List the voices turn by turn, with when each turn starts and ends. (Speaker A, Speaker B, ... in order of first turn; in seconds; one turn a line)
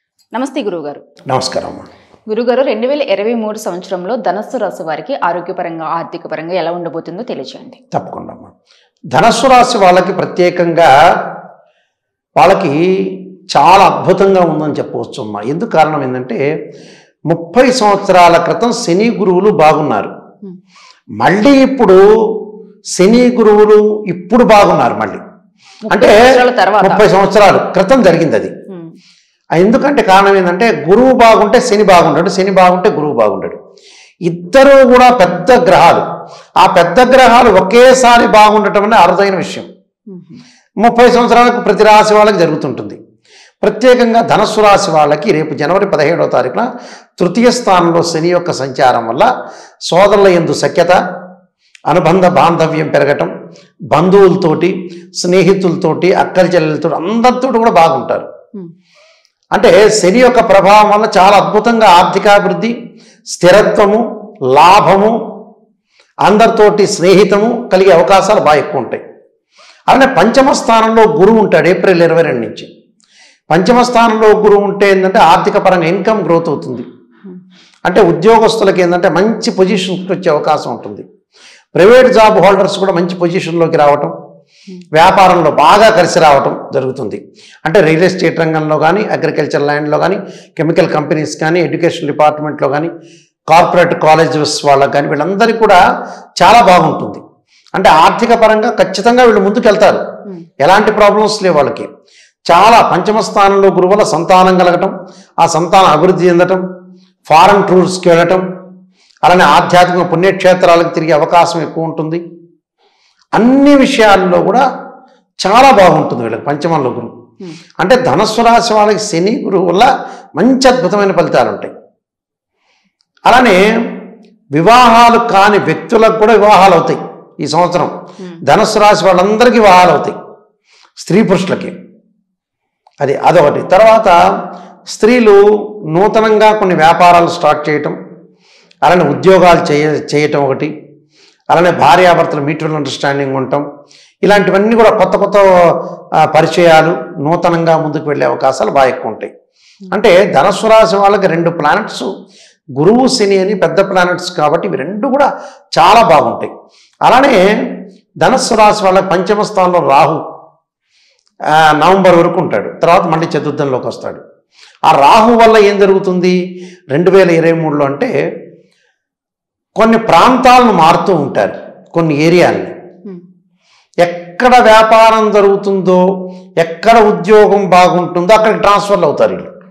Speaker A: 0.3-1.0
Speaker B: 1.3-1.9
Speaker A: 2.3-7.8
Speaker B: 7.9-8.5
Speaker B: 9.1-10.9
Speaker B: 12.4-16.4
Speaker B: 17.3-20.1
Speaker B: 21.2-22.0
Speaker B: 23.0-25.2
Speaker A: 25.9-27.0
Speaker B: 25.9-26.2
Speaker B: 26.8-28.5
Speaker B: 29.6-33.6
Speaker B: 34.3-36.0
Speaker B: 36.6-39.7
Speaker A: 40.1-40.4
Speaker B: 40.8-43.0
Speaker B: 43.6-49.3
Speaker B: 49.9-51.0
Speaker B: 51.9-53.3
Speaker B: 53.9-58.3
Speaker B: 59.5-62.7
Speaker B: 63.3-64.0
Speaker B: 64.5-65.2
Speaker B: 66.2-69.0
Speaker B: 69.9-72.7
Speaker B: 73.5-76.8
Speaker B: 77.8-81.0
Speaker B: 81.7-84.1
Speaker B: 84.9-92.9
Speaker B: 93.5-95.8
Speaker B: 96.4-97.2
Speaker B: 97.7-100.0
Speaker B: 100.6-101.9
Speaker B: 102.5-106.6
Speaker B: 107.3-108.4
Speaker B: 109.2-112.2
Speaker B: 113.3-114.6
Speaker B: 115.4-117.1
Speaker B: 117.8-121.7
Speaker B: 123.3-123.6
Speaker B: 124.5-127.9
Speaker B: 128.4-130.2
Speaker B: 131.0-131.7
Speaker B: 133.0-134.2
Speaker B: 134.9-135.4
Speaker B: 135.9-137.9
Speaker B: 138.8-140.7
Speaker B: 141.5-143.6
Speaker B: 144.2-145.5
Speaker B: 146.3-149.3
Speaker B: 149.9-152.1
Speaker B: 152.8-156.5
Speaker B: 157.1-157.4
Speaker B: 158.2-160.2
Speaker B: 161.5-164.2
Speaker B: 164.9-166.4
Speaker B: 166.9-168.1
Speaker B: 169.8-172.7
Speaker B: 174.0-176.0
Speaker B: 176.6-179.5